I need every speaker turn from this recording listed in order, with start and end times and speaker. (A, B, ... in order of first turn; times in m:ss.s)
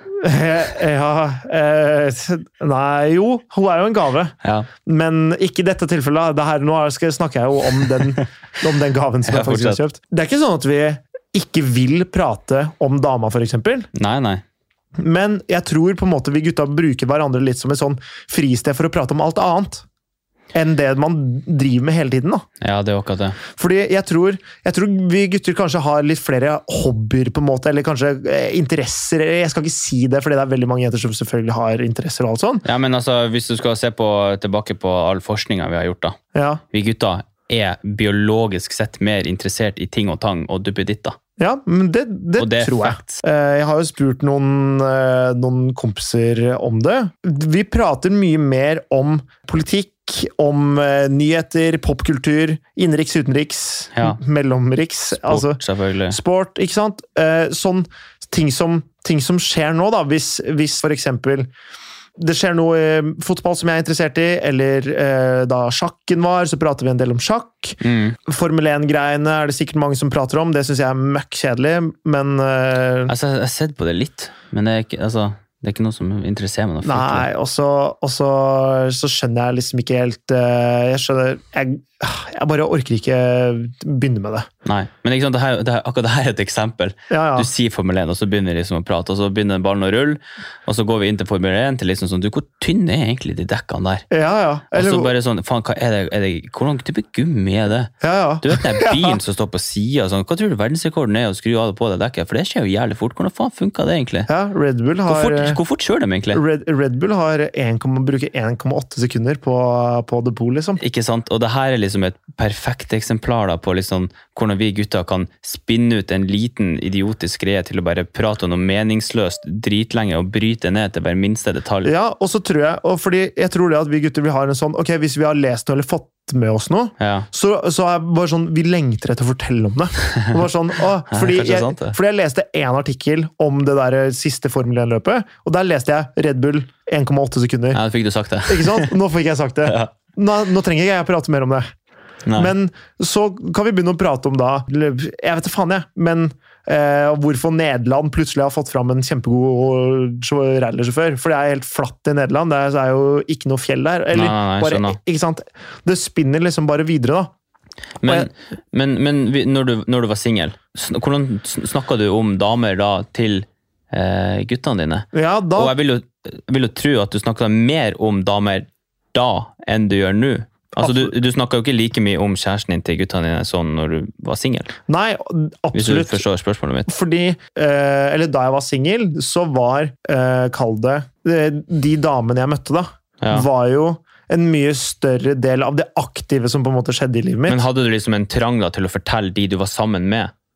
0:00.2-0:13.9 A
0:04.4-0:04.7 B
0:09.2-0:09.8 B
0:13.9-0:14.4 B
0:15.0-0:19.8 A
0:20.5-0:22.4 A
0:22.6-0:23.4 B
0:23.5-0:32.6 A
0:32.6-0:36.2 B
0:36.3-0:36.6 A
0:36.7-0:41.2 B
0:41.4-1:01.5 A
0:42.4-0:43.2 B
0:53.9-0:54.2 B
0:55.1-0:56.2 B
1:02.2-1:13.1 A
1:07.8-1:08.2 B
1:13.1-1:17.3 B
1:16.8-1:24.5 A
1:24.6-1:34.0 B
1:27.1-1:27.5 A
1:34.1-1:35.1 A
1:34.7-1:44.3 B
1:38.0-1:39.2 A
1:44.3-1:45.6 A
1:45.1-1:46.4 B
1:46.3-1:50.8 A
1:50.8-2:01.9 B
2:01.8-2:17.8 A
2:07.0-2:07.3 B
2:11.1-2:11.9 B
2:17.7-2:18.9 B
2:18.4-2:21.7 A
2:19.6-2:19.9 B
2:22.2-2:22.5 B
2:22.3-2:37.3 A
2:34.1-2:35.0 B
2:38.0-2:54.7 B
2:45.1-2:45.7 A
2:50.8-2:51.1 A
2:54.9-2:56.2 A
2:55.7-2:56.9 B
2:56.8-3:07.6 A
3:03.2-3:03.5 B
3:07.5-3:10.3 B